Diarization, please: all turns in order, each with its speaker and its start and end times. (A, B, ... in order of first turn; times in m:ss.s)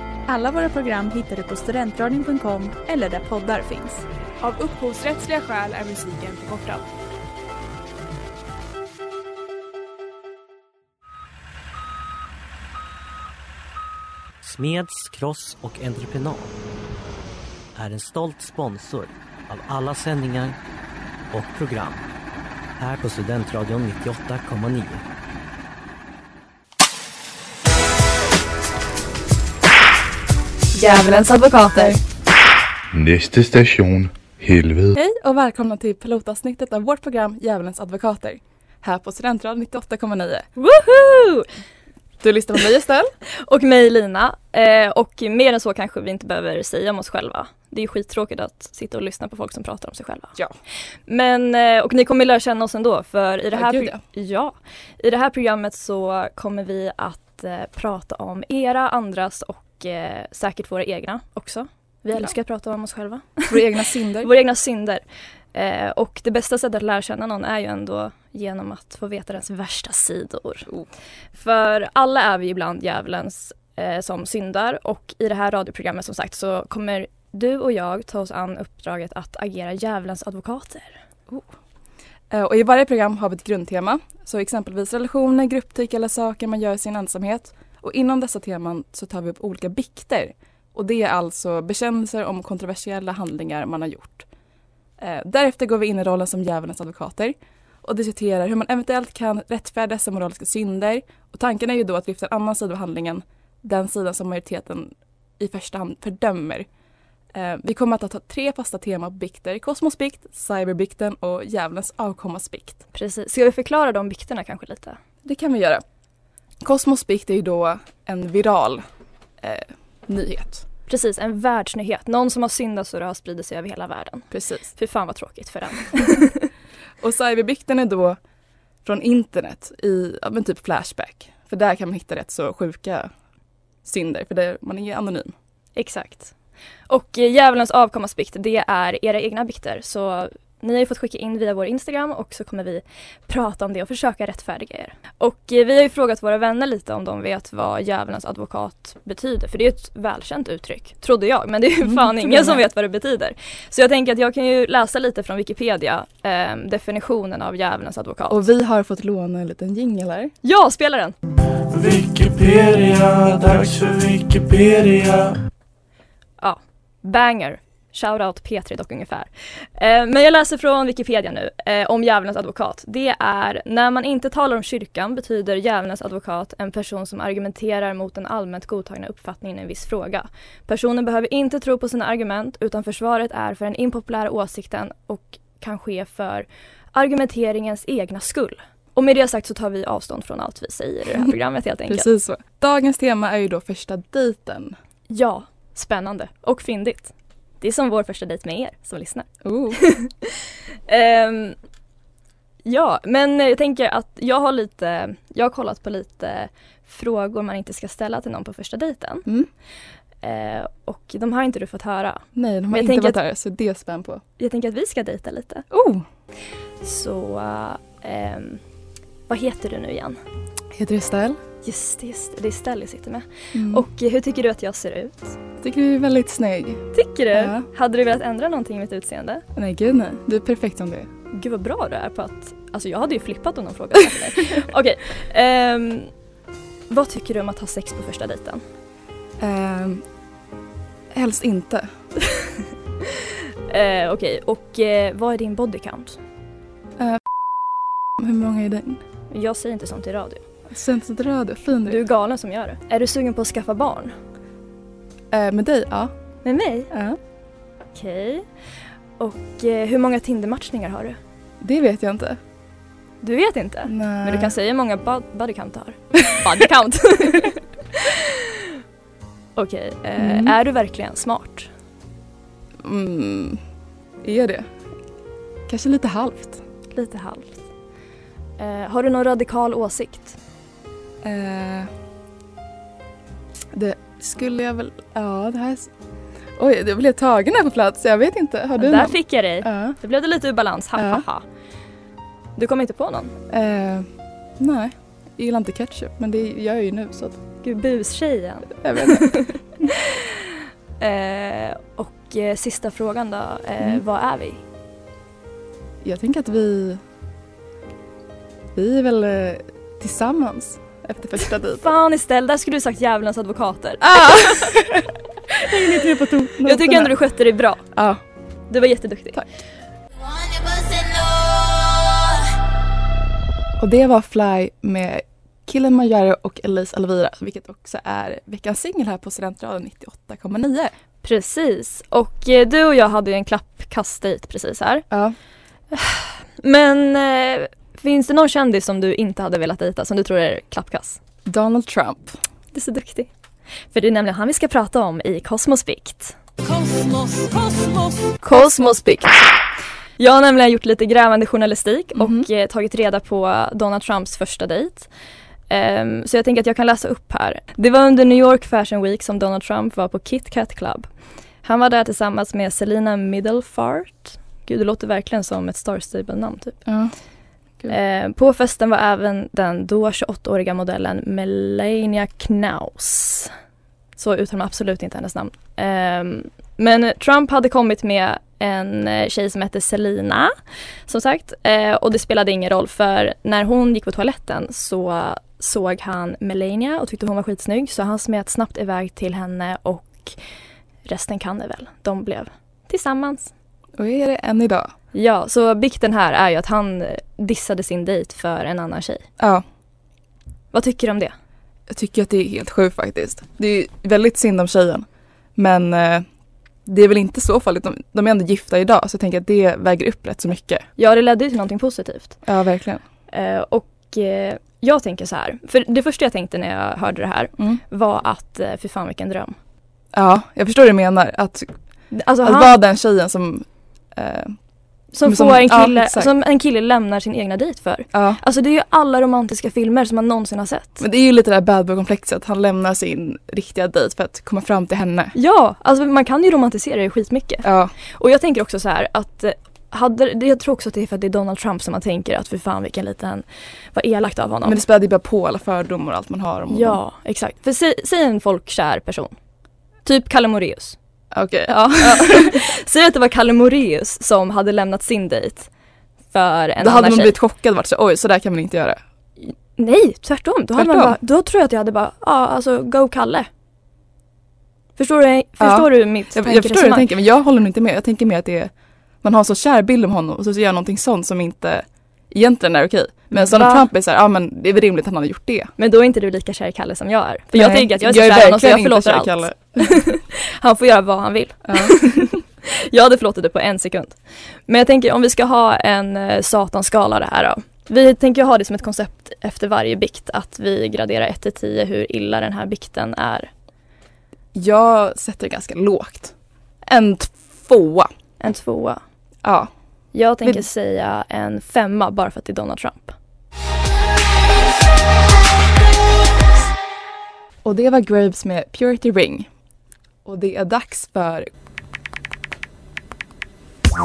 0:00.3-0:04.0 A
0:04.4-0:06.8 B
0:14.4-0:16.5 C
0:17.7-0:20.6 C
0:21.3-0:22.0 C
0:22.8-0:25.0 C
0:30.7-0:32.0 D
0:32.9-0:34.9 E
0:34.9-0:40.4 F
0:40.6-0:41.5 D
0:42.2-0:43.1 F
0:43.4-0:50.3 D
0:51.1-1:03.7 D
0:53.5-0:54.0 F
1:03.5-1:04.3 F
1:04.2-1:05.0 D
1:05.5-1:10.7 D
1:11.3-1:21.0 D
1:22.3-1:34.2 F
1:35.0-1:46.7 F
1:47.3-1:52.8 F
1:52.9-1:55.0 D
1:55.2-1:55.8 F
1:56.6-1:58.8 F
1:59.4-2:00.6 F
2:00.9-2:06.5 D
2:04.3-2:04.7 F
2:07.0-2:08.2 F
2:08.8-2:13.1 F
2:13.8-2:15.3 F
2:15.8-2:16.3 D
2:16.9-2:38.4 D
2:31.8-2:32.6 F
2:38.3-2:40.3 F
2:40.4-2:41.1 D
2:41.7-2:45.4 G
2:46.4-3:12.1 D
3:11.9-3:14.8 F
3:15.1-3:21.6 D
3:19.4-3:19.8 F
3:22.6-3:29.2 D
3:30.2-3:33.2 D
3:32.4-3:34.2 F
3:34.4-3:35.6 D
3:35.7-3:36.0 F
3:36.8-3:38.6 D
3:39.3-3:40.2 D
3:40.7-3:41.4 F
3:41.6-3:45.3 D
3:43.5-3:43.8 F
3:45.6-3:47.7 F
3:46.9-3:49.4 D
3:49.6-3:51.1 F
3:51.3-3:56.1 D
3:56.9-3:58.6 D
3:59.4-4:00.0 F
4:01.1-4:01.9 F
4:03.7-4:06.2 D
4:08.2-4:09.0 F
4:09.3-4:10.4 D
4:10.7-4:12.0 F
4:11.8-4:14.1 D
4:15.3-4:16.1 F
4:16.4-4:16.9 D
4:16.9-4:17.2 F
4:17.9-4:18.4 D
4:19.2-4:21.2 D
4:21.6-4:22.4 F
4:23.2-4:28.7 D
4:23.8-4:24.5 F
4:29.6-4:31.7 D
4:30.2-4:30.6 F
4:32.8-4:33.6 F
4:34.2-4:34.7 F
4:35.7-4:36.6 F
4:36.9-4:37.6 D
4:38.6-4:40.4 D
4:41.2-4:41.9 F
4:43.7-4:45.9 F
4:46.6-4:50.0 F
4:48.8-4:51.4 D
4:51.0-4:51.2 F
4:52.6-4:53.3 D
4:53.5-4:54.1 F
4:54.6-4:57.4 F
4:57.6-5:00.4 D
4:58.8-4:59.4 F
5:01.0-5:04.6 D
5:06.0-5:07.0 F
5:08.8-5:11.9 F
5:11.8-5:14.8 D
5:14.0-5:17.1 F
5:16.6-5:17.8 D
5:17.9-5:18.2 F
5:18.7-5:19.4 D
5:23.8-5:30.9 F
5:31.2-5:35.0 D
5:35.1-5:35.4 F
5:35.9-5:41.2 D
5:41.4-5:42.4 F
5:42.7-5:43.3 D
5:43.9-5:46.4 D
5:48.4-5:49.2 F
5:48.5-5:49.0 D
5:50.2-5:55.1 D
5:52.1-5:52.4 F
5:55.7-6:01.1 D
6:01.6-6:06.8 D
6:06.8-6:07.1 F
6:07.9-6:13.5 D
6:14.2-6:20.5 D
6:21.1-6:30.4 D
6:31.0-6:33.5 D
6:34.0-6:34.9 F
6:35.1-6:39.2 D
6:40.7-6:41.3 D
6:41.9-6:45.0 F
6:45.6-6:46.2 F
6:46.8-6:50.8 F
6:51.0-6:52.4 D
6:52.4-6:53.0 F
6:53.3-6:59.5 D
7:00.1-7:01.7 F
7:02.1-7:02.8 D
7:02.4-7:04.5 F
7:05.1-7:11.0 D
7:05.2-7:06.3 F
7:08.1-7:08.4 F
7:11.0-7:15.3 F
7:15.3-7:24.8 D
7:17.6-7:17.9 F
7:24.6-7:27.0 F
7:26.7-7:29.3 D
7:30.0-7:31.0 D
7:31.3-7:32.6 F
7:32.0-7:35.7 D
7:36.3-7:37.4 D
7:36.8-7:39.0 F
7:39.5-7:43.5 D
7:40.8-7:41.2 F
7:45.0-7:47.1 D
7:45.6-7:48.7 F
7:49.2-7:55.7 F
7:53.3-7:53.9 D
7:55.8-8:04.2 D
7:57.5-7:59.9 F
8:01.7-8:02.3 F
8:04.7-8:13.5 D
8:14.5-8:16.3 F
8:16.9-8:18.1 F
8:18.4-8:19.0 D
8:19.4-8:19.7 F
8:20.1-8:23.2 D
8:27.6-8:29.5 F
8:30.2-8:31.5 F